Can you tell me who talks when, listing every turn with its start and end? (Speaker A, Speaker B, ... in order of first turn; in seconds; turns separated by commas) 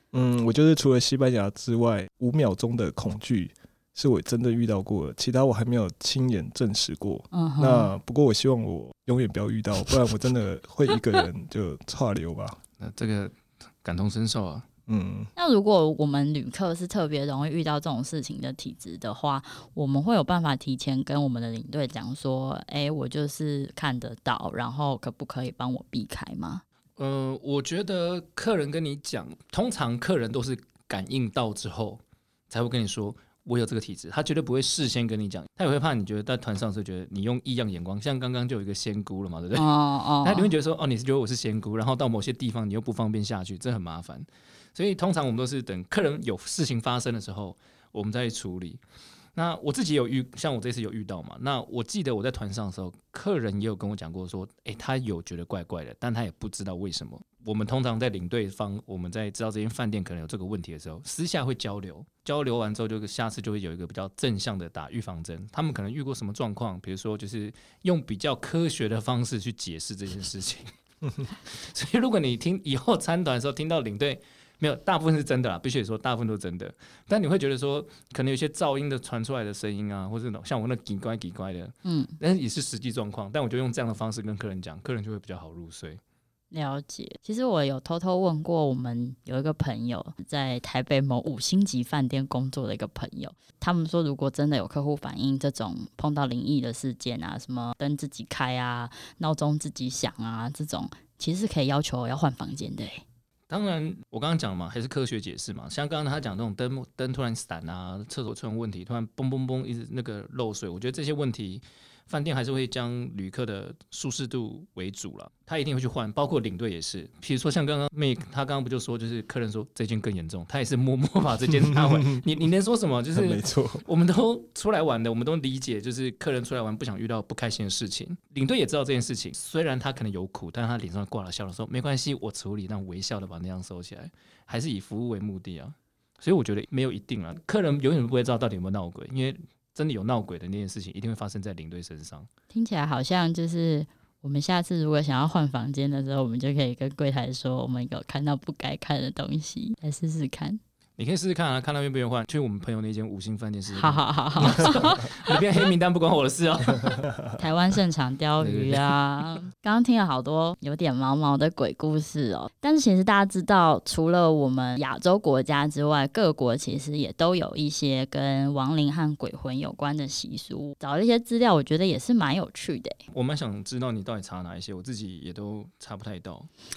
Speaker A: 0.1-12.6, Speaker B: 7.3-7.9, Speaker C: 12.8-14.7, Speaker A: 14.9-15.3, Speaker B: 15.3-26.6, Speaker C: 27.0-39.7, Speaker B: 39.5-40.5, Speaker C: 40.2-48.8, Speaker C: 49.3-70.7, Speaker C: 71.3-86.0, Speaker B: 81.8-82.1, Speaker B: 86.5-103.0, Speaker C: 103.5-142.3, Speaker A: 121.7-122.2, Speaker A: 123.1-123.8, Speaker B: 142.5-150.6, Speaker C: 151.0-157.1, Speaker B: 153.7-155.4, Speaker B: 157.3-173.0, Speaker C: 158.4-158.9, Speaker C: 173.1-176.5